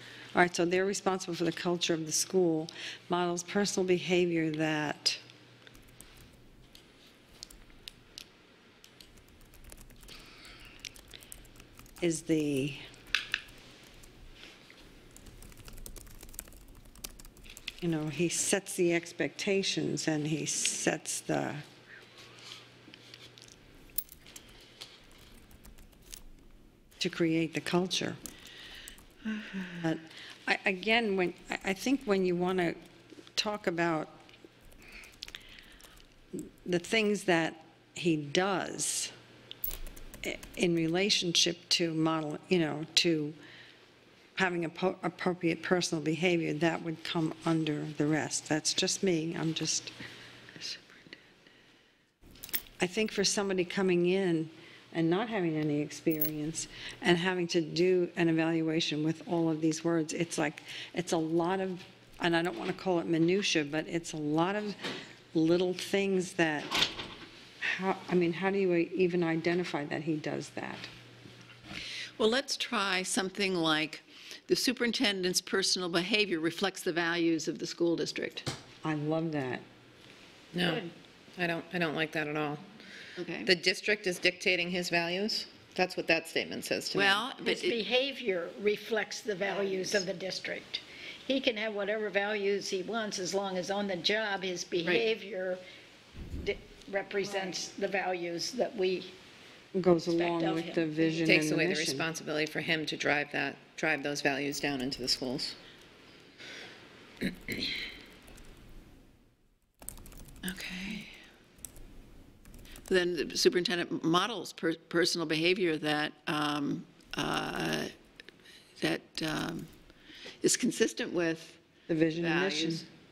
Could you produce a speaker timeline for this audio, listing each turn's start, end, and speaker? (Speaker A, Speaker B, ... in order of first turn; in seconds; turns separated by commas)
Speaker A: 0.3-5.2, Speaker A: 12.0-12.8, Speaker A: 17.8-21.6, Speaker A: 27.0-28.2, Speaker A: 29.8-32.8, Speaker A: 33.3-34.2, Speaker A: 36.3-39.1, Speaker A: 40.2-43.4, Speaker A: 44.4-49.9, Speaker B: 50.6-51.0, Speaker A: 52.8-66.9, Speaker A: 67.6-70.9, Speaker B: 72.2-78.5, Speaker A: 78.8-79.6, Speaker C: 80.5-80.8, Speaker D: 80.6-80.9, Speaker C: 81.4-82.6, Speaker B: 83.2-83.5, Speaker C: 83.4-87.2, Speaker B: 86.9-87.8, Speaker D: 87.4-95.6, Speaker D: 96.4-99.1, Speaker A: 99.7-102.0, Speaker D: 100.1-101.2, Speaker C: 101.2-105.5, Speaker B: 110.4-111.1, Speaker B: 112.9-117.9, Speaker B: 118.8-119.7, Speaker B: 120.4-121.6, Speaker A: 121.9-122.8, Speaker B: 122.2-122.8